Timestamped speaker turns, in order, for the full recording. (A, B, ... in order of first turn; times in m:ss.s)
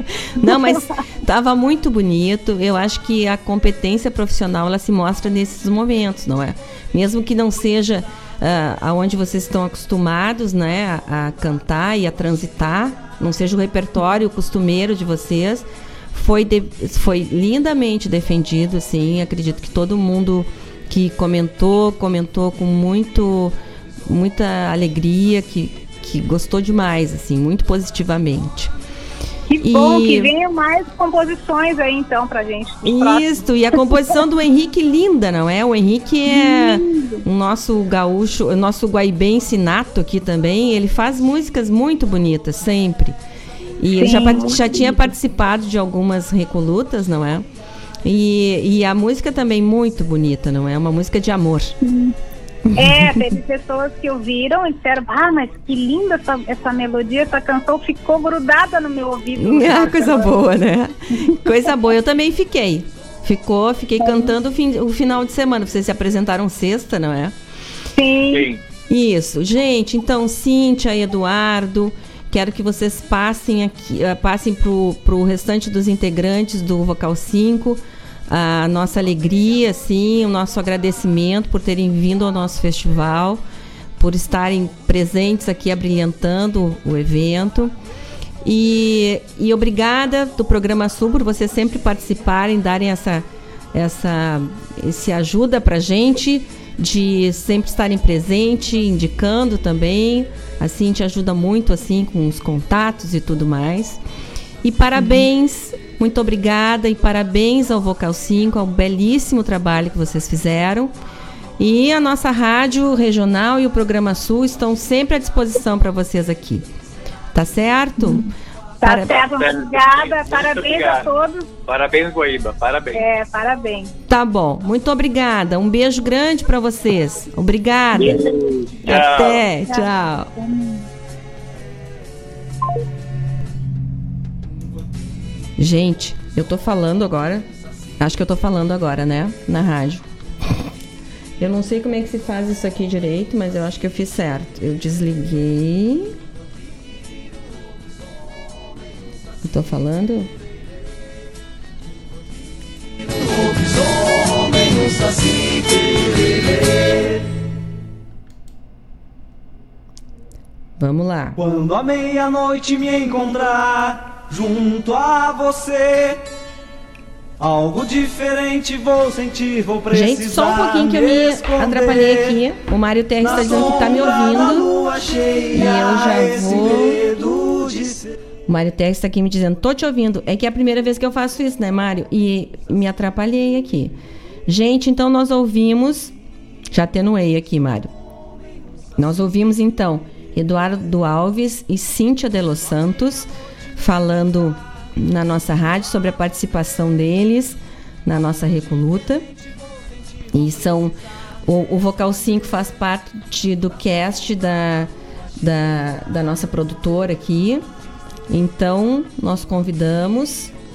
0:00.4-0:28.7 A
0:00.4-0:00.8 B
0:29.5-0:33.3 B
0:29.6-0:30.3 A
0:32.8-0:43.2 A
0:36.3-0:37.2 B
0:43.8-0:47.4 A
0:44.0-0:45.1 B
0:48.0-0:51.7 A
0:51.9-0:52.1 B
0:52.7-0:53.2 A
0:52.8-1:00.3 B
0:59.4-1:07.3 A
1:04.0-1:04.3 B
1:08.0-1:08.5 B
1:08.3-1:08.6 C
1:08.9-1:23.4 A
1:24.0-1:27.7 A
1:28.4-1:44.0 A
1:44.6-1:50.9 A
1:51.6-1:56.7 A
1:57.3-1:58.3 A
1:58.0-1:58.3 B
1:58.8-2:01.5 B
1:58.8-1:59.2 A
1:59.1-2:03.0 C
2:02.9-2:03.9 B
2:04.1-2:08.2 A
2:08.0-2:09.4 C
2:08.8-2:10.3 A
2:09.7-2:10.8 B
2:15.6-2:17.5 A
2:18.0-2:20.0 A
2:21.4-2:26.1 A
2:29.4-2:30.3 A
2:33.2-2:37.2 D
2:40.8-2:41.4 A
2:41.4-2:46.2 D
2:47.4-2:52.4 D
2:49.9-2:54.7 A
2:53.2-2:58.0 D
2:55.5-2:57.0 A
2:58.5-3:04.0 A
3:04.5-3:06.1 A
3:06.7-3:07.9 A
3:09.0-3:19.2 A
3:20.3-3:27.6 A
3:28.3-3:30.5 A